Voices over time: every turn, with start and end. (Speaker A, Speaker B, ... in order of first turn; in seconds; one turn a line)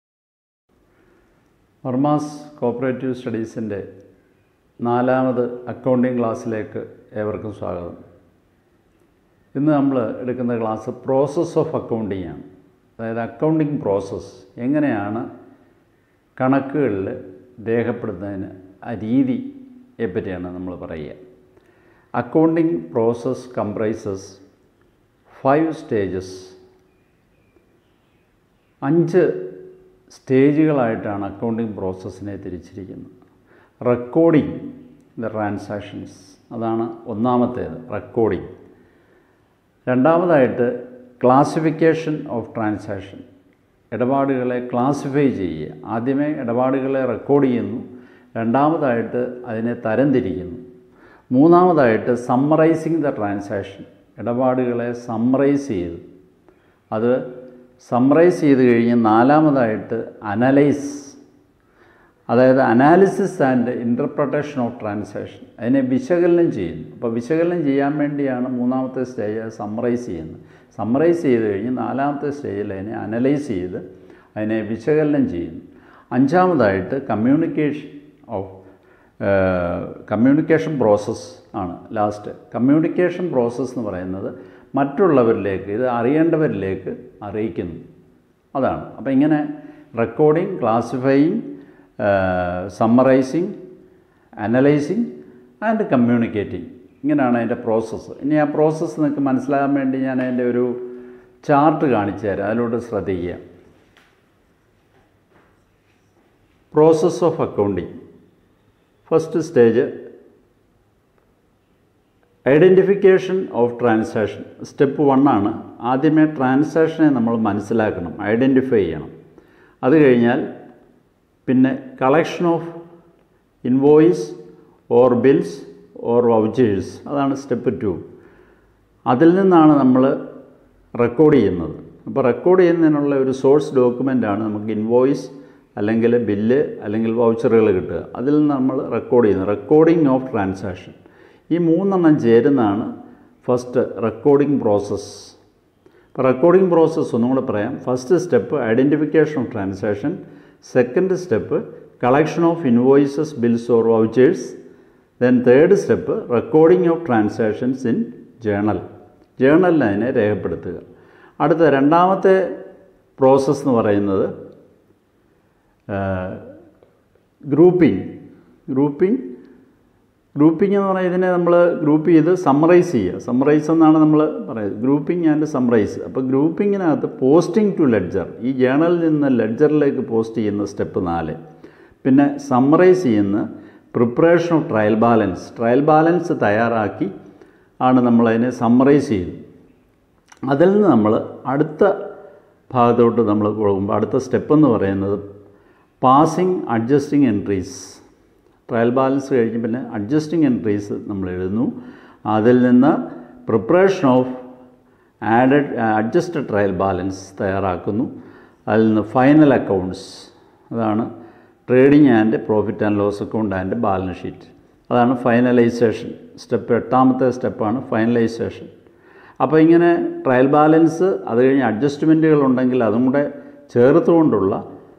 Speaker A: 1.8-3.8
Speaker A: 4.8-8.0
Speaker A: 9.5-12.4
Speaker A: 13.0-15.2
Speaker A: 16.4-19.5
Speaker A: 20.0-21.2
Speaker A: 22.2-24.4
Speaker A: 25.3-26.5
Speaker A: 28.8-29.3
Speaker A: 30.1-33.1
Speaker A: 33.8-38.5
Speaker A: 39.9-43.2
Speaker A: 43.9-47.8
Speaker A: 48.4-50.6
Speaker A: 51.3-56.0
Speaker A: 56.9-57.2
Speaker A: 57.8-61.2
Speaker A: 62.3-73.8
Speaker A: 74.3-78.6
Speaker A: 79.2-87.8
Speaker A: 88.5-91.4
Speaker A: 92.0-93.5
Speaker A: 94.4-95.1
Speaker A: 95.6-100.8
Speaker A: 101.4-103.4
Speaker A: 106.7-107.9
Speaker A: 109.1-109.9
Speaker A: 112.5-119.1
Speaker A: 119.8-120.4
Speaker A: 121.5-122.7
Speaker A: 123.6-124.4
Speaker A: 124.9-128.0
Speaker A: 129.1-130.1
Speaker A: 131.0-141.0
Speaker A: 141.5-142.9
Speaker A: 143.4-145.4
Speaker A: 146.1-154.6
Speaker A: 155.2-158.8
Speaker A: 159.4-160.8
Speaker A: 161.4-162.4
Speaker A: 163.2-164.3
Speaker A: 165.9-166.5
Speaker A: 167.5-168.1
Speaker A: 168.7-169.2
Speaker A: 170.3-181.4
Speaker A: 182.0-187.1
Speaker A: 187.8-189.4
Speaker A: 190.5-191.9
Speaker A: 192.7-195.2
Speaker A: 196.0-198.0
Speaker A: 198.7-201.7
Speaker A: 202.3-204.4
Speaker A: 205.3-208.1
Speaker A: 208.7-211.1
Speaker A: 211.7-218.7
Speaker A: 219.4-224.6